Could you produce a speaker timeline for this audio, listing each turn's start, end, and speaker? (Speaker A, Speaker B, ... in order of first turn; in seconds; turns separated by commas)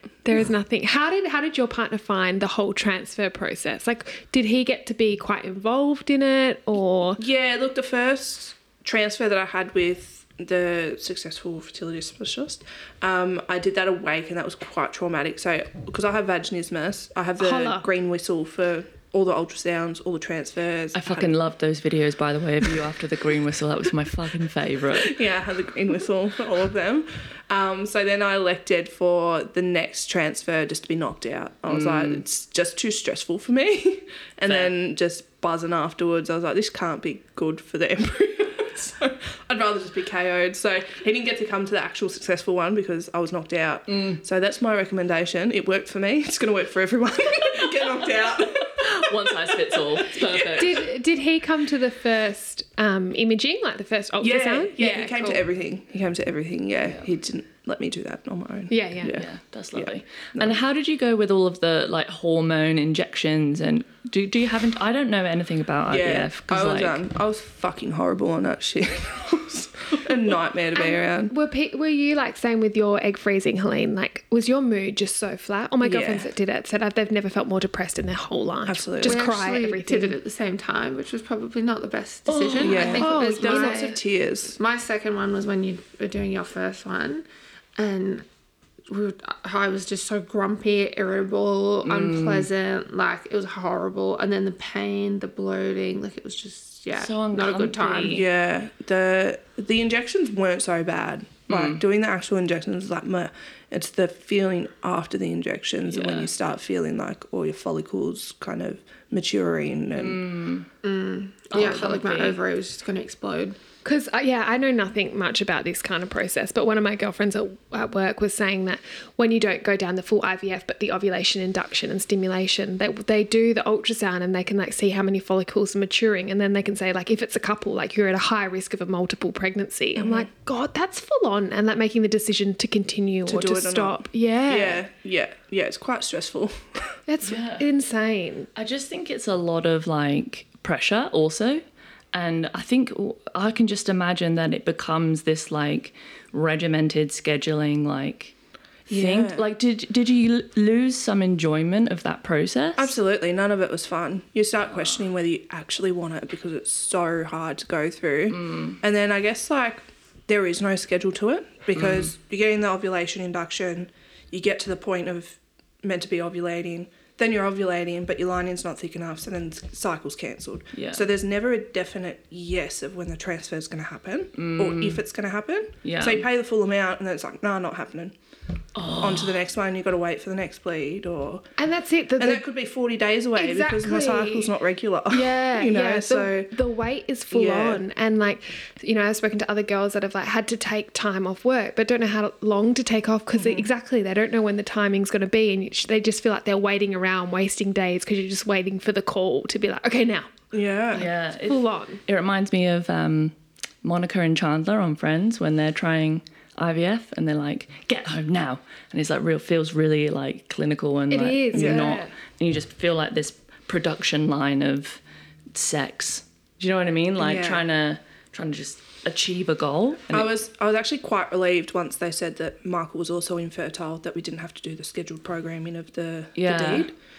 Speaker A: 0.2-7.2, Speaker B: 7.2-21.3, Speaker A: 17.4-17.9, Speaker C: 20.9-25.2, Speaker B: 24.9-49.5, Speaker C: 31.7-32.2, Speaker C: 34.5-34.7, Speaker C: 43.9-44.2, Speaker C: 48.6-50.8, Speaker A: 50.5-55.4, Speaker B: 54.2-60.6, Speaker A: 58.7-59.1, Speaker C: 59.1-67.0, Speaker B: 65.9-71.3, Speaker A: 70.7-80.2, Speaker B: 75.8-76.3, Speaker B: 78.7-79.2, Speaker D: 79.0-84.0, Speaker C: 82.3-83.0, Speaker B: 82.6-84.6, Speaker A: 82.6-84.0, Speaker D: 84.5-87.2, Speaker D: 87.8-88.3, Speaker D: 88.9-98.2, Speaker C: 91.8-92.5, Speaker C: 97.0-98.2, Speaker B: 98.0-110.3, Speaker C: 101.5-101.8, Speaker C: 105.9-106.3, Speaker C: 110.0-110.7, Speaker D: 110.8-113.6, Speaker C: 111.5-112.4, Speaker A: 113.8-134.8, Speaker B: 130.0-130.3, Speaker B: 133.2-136.9, Speaker A: 137.1-138.5, Speaker C: 137.2-137.6, Speaker C: 138.5-148.3, Speaker B: 148.9-149.4, Speaker C: 148.9-152.9, Speaker B: 152.8-178.1, Speaker C: 158.3-158.8, Speaker C: 161.8-162.1, Speaker C: 170.7-171.0, Speaker C: 174.3-175.0, Speaker C: 175.8-176.2, Speaker C: 178.7-179.4, Speaker B: 179.0-181.5, Speaker A: 181.6-182.4, Speaker B: 182.2-186.5, Speaker A: 183.3-184.5, Speaker A: 185.1-200.3, Speaker B: 187.3-187.8, Speaker B: 193.3-193.7, Speaker B: 200.5-201.1, Speaker A: 200.9-202.0, Speaker C: 200.9-215.0, Speaker A: 211.1-212.1, Speaker B: 211.5-212.0, Speaker C: 215.5-220.3, Speaker B: 217.2-217.6, Speaker B: 220.1-226.9, Speaker C: 226.3-226.9